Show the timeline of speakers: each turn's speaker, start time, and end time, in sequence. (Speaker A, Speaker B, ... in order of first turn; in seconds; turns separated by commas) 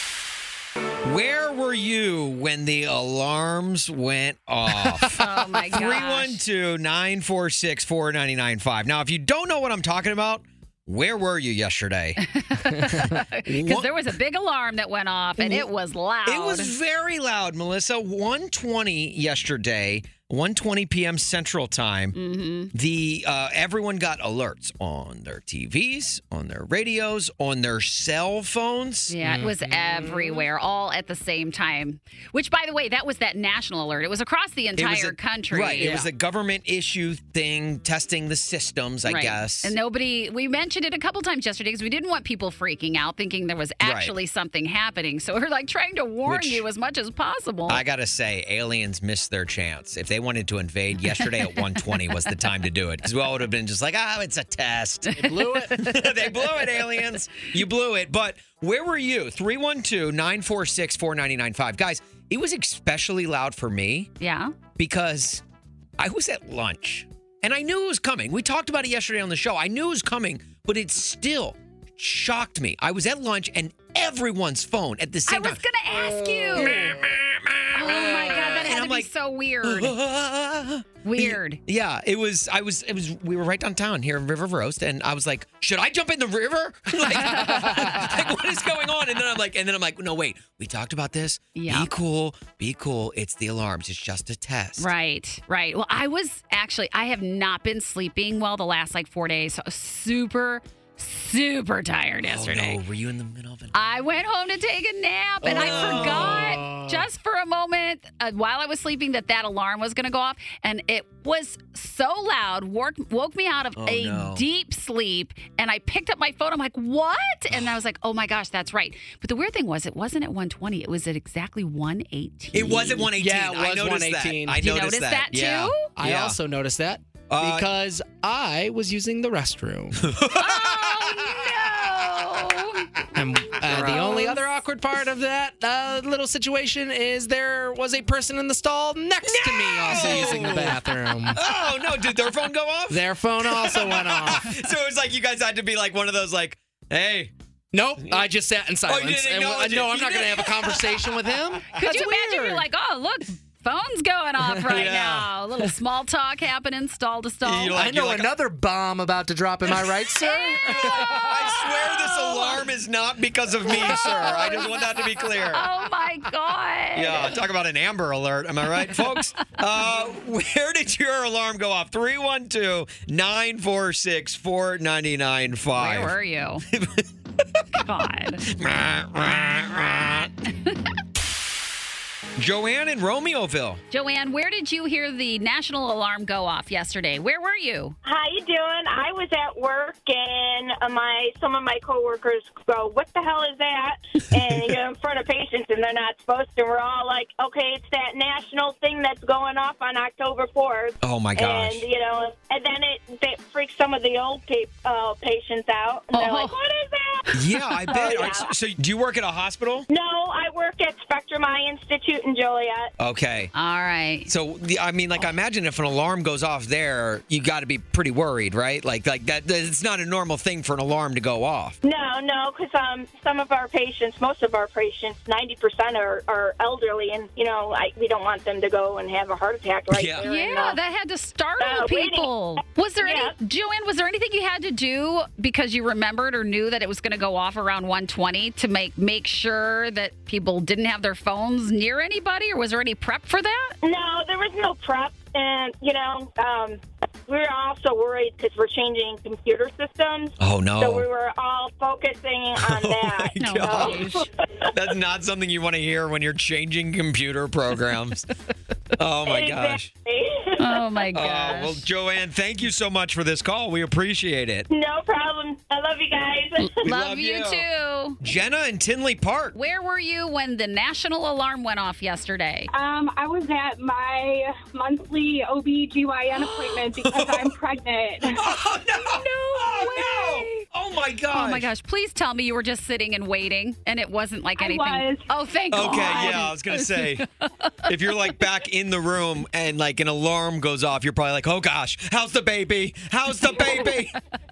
Speaker A: 1.0-12.2, Speaker B: 5.1-6.4, Speaker B: 12.2-16.7, Speaker A: 13.5-13.9, Speaker A: 15.4-15.7, Speaker A: 16.3-22.2, Speaker B: 22.1-22.7, Speaker A: 22.7-29.2, Speaker B: 29.1-36.0, Speaker C: 29.2-30.4, Speaker A: 34.8-39.8, Speaker C: 35.8-36.1, Speaker B: 39.0-47.8, Speaker A: 43.8-44.1, Speaker A: 46.3-46.7, Speaker A: 47.7-55.2, Speaker B: 51.1-52.0, Speaker B: 55.1-56.8, Speaker C: 55.2-55.8, Speaker A: 55.8-64.1, Speaker B: 64.2-64.5, Speaker A: 64.8-65.4, Speaker A: 66.0-75.6, Speaker B: 75.3-77.0, Speaker A: 76.2-79.1, Speaker B: 77.7-80.0, Speaker A: 79.6-94.9, Speaker B: 81.0-81.6, Speaker B: 87.1-88.3, Speaker B: 91.5-91.9, Speaker B: 94.8-102.8, Speaker A: 102.2-103.7, Speaker B: 103.7-123.1, Speaker A: 105.4-106.7, Speaker C: 105.5-107.0, Speaker A: 113.8-114.4, Speaker A: 122.5-126.4, Speaker C: 123.1-124.6, Speaker B: 124.6-125.9, Speaker C: 126.0-130.1, Speaker A: 127.3-127.7, Speaker A: 130.0-132.1, Speaker B: 130.3-132.9, Speaker C: 133.1-141.4, Speaker A: 133.6-134.4, Speaker A: 139.2-147.3, Speaker B: 140.0-140.5, Speaker C: 142.9-144.6, Speaker C: 147.7-152.7, Speaker A: 148.0-148.3, Speaker A: 148.9-151.3, Speaker B: 151.7-157.8, Speaker A: 154.5-155.3, Speaker A: 157.4-158.3, Speaker C: 157.8-161.1, Speaker B: 160.2-162.7, Speaker A: 160.5-165.7, Speaker B: 163.7-167.4, Speaker A: 166.9-176.2, Speaker B: 168.9-169.6, Speaker B: 175.8-176.6, Speaker A: 176.7-177.1, Speaker B: 177.7-178.4, Speaker A: 178.4-180.3, Speaker B: 180.5-180.8, Speaker A: 182.4-183.8, Speaker B: 183.9-188.0, Speaker D: 188.1-207.3, Speaker A: 201.0-201.8, Speaker B: 206.1-206.6, Speaker A: 207.3-209.9, Speaker D: 207.9-208.5, Speaker D: 209.9-212.9, Speaker A: 213.0-213.5, Speaker B: 213.5-214.3, Speaker A: 214.3-221.8, Speaker D: 221.8-230.8, Speaker A: 229.9-230.2, Speaker B: 230.2-243.8, Speaker D: 231.6-232.3, Speaker D: 233.0-233.3, Speaker D: 243.8-254.7, Speaker A: 250.4-251.1, Speaker A: 252.6-254.1, Speaker B: 253.4-254.3, Speaker A: 254.7-258.3, Speaker A: 259.0-259.9, Speaker D: 259.2-260.9, Speaker B: 260.6-261.9, Speaker A: 261.1-264.7, Speaker D: 264.7-266.8, Speaker B: 266.7-268.2, Speaker A: 266.8-267.6, Speaker A: 268.2-269.6, Speaker B: 269.6-272.7, Speaker E: 272.7-278.4, Speaker A: 277.0-277.5, Speaker A: 278.3-281.7, Speaker B: 279.0-280.6, Speaker B: 281.3-287.9, Speaker E: 284.6-285.3, Speaker A: 285.7-287.2, Speaker A: 287.9-294.1, Speaker B: 293.6-293.9